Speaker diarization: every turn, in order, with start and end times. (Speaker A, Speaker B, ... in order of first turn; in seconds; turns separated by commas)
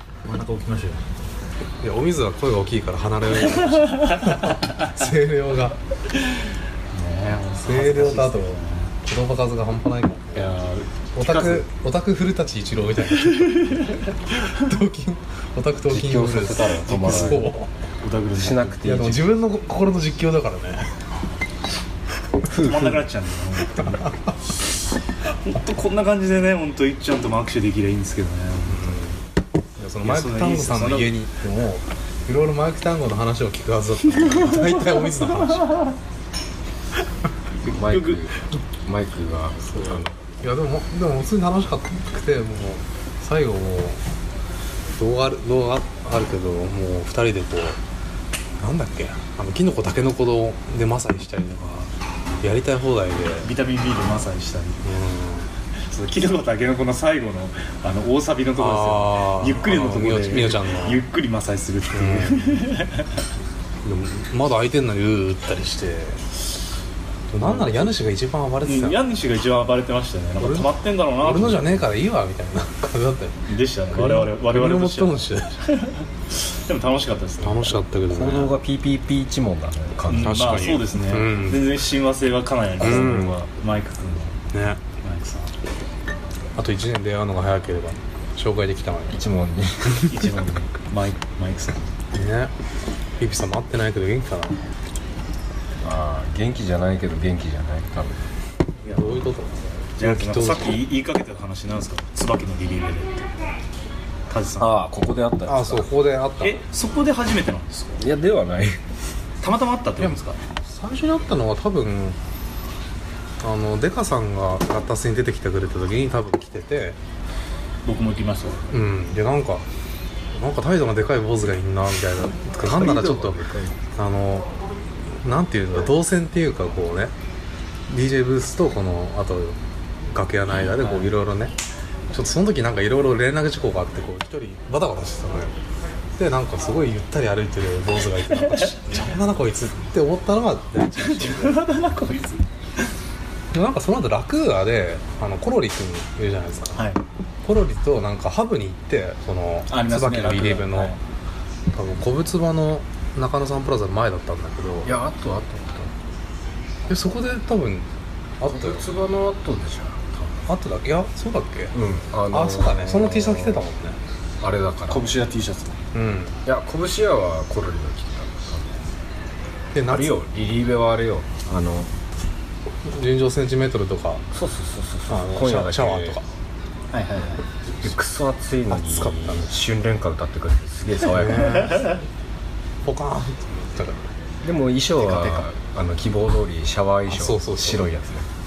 Speaker A: 0.2-1.0, Speaker B: 1.8-5.8, Speaker A: 4.0-4.5, Speaker A: 6.9-8.9, Speaker B: 7.6-10.3, Speaker A: 10.3-11.6, Speaker B: 11.1-17.7, Speaker A: 13.6-14.0, Speaker C: 15.9-17.5, Speaker A: 16.8-17.5, Speaker A: 18.0-19.1, Speaker C: 18.3-19.3, Speaker B: 18.8-20.9, Speaker A: 22.4-24.2, Speaker C: 22.5-23.0, Speaker A: 25.4-29.0, Speaker B: 28.7-29.2, Speaker B: 29.8-35.8, Speaker A: 30.0-31.1, Speaker A: 37.6-38.2, Speaker C: 37.7-40.1, Speaker B: 39.6-44.0, Speaker B: 45.0-47.8, Speaker B: 48.6-51.9, Speaker B: 52.4-53.5, Speaker A: 53.4-54.8, Speaker B: 54.8-55.5, Speaker A: 55.9-63.2, Speaker B: 58.6-61.0, Speaker B: 61.9-62.6, Speaker B: 63.8-66.2, Speaker B: 67.3-69.0, Speaker A: 67.4-67.9, Speaker A: 68.6-71.8, Speaker B: 70.4-73.4, Speaker A: 73.5-77.8, Speaker B: 73.9-75.6, Speaker B: 77.4-78.5, Speaker C: 78.1-80.8, Speaker A: 80.1-84.4, Speaker B: 80.1-81.7, Speaker C: 82.8-83.3, Speaker B: 82.8-83.4, Speaker B: 84.5-84.8, Speaker A: 85.0-85.5, Speaker B: 86.6-89.2, Speaker C: 89.1-90.0, Speaker A: 90.0-91.9, Speaker B: 92.1-92.5, Speaker B: 93.2-94.6, Speaker C: 95.8-98.2, Speaker A: 98.8-99.2, Speaker B: 98.9-100.8, Speaker A: 100.0-103.3, Speaker A: 104.3-104.8, Speaker C: 104.6-105.9, Speaker B: 105.5-106.6, Speaker A: 106.4-108.0, Speaker C: 108.0-108.8, Speaker A: 109.4-110.4, Speaker B: 110.0-112.2, Speaker B: 113.4-117.0, Speaker A: 117.8-118.6, Speaker B: 118.7-119.6, Speaker B: 120.3-123.4, Speaker C: 122.6-123.8, Speaker B: 124.0-124.5, Speaker B: 125.2-127.1, Speaker B: 127.9-129.6, Speaker B: 130.1-131.5, Speaker A: 130.8-131.1, Speaker B: 132.1-135.5, Speaker B: 136.2-141.7, Speaker A: 138.3-138.7, Speaker A: 141.0-142.4, Speaker B: 143.5-146.8, Speaker A: 146.7-147.0, Speaker B: 147.4-151.0, Speaker A: 149.7-151.0, Speaker B: 151.7-154.9, Speaker C: 154.8-155.9, Speaker B: 156.9-157.8, Speaker B: 158.4-158.8, Speaker C: 158.4-160.4, Speaker B: 160.5-161.7, Speaker C: 161.7-163.7, Speaker B: 162.3-164.0, Speaker C: 164.4-165.1, Speaker A: 164.9-165.8, Speaker B: 165.9-166.3, Speaker C: 166.4-168.8, Speaker B: 169.7-170.2, Speaker C: 169.9-171.9, Speaker B: 172.8-174.2, Speaker C: 174.3-176.2, Speaker B: 175.1-176.2, Speaker A: 176.9-177.4, Speaker C: 177.8-181.7, Speaker B: 178.7-179.5, Speaker B: 181.1-181.9, Speaker A: 181.7-182.0, Speaker B: 182.8-184.1, Speaker C: 184.4-188.3, Speaker A: 185.0-185.4, Speaker B: 187.1-187.9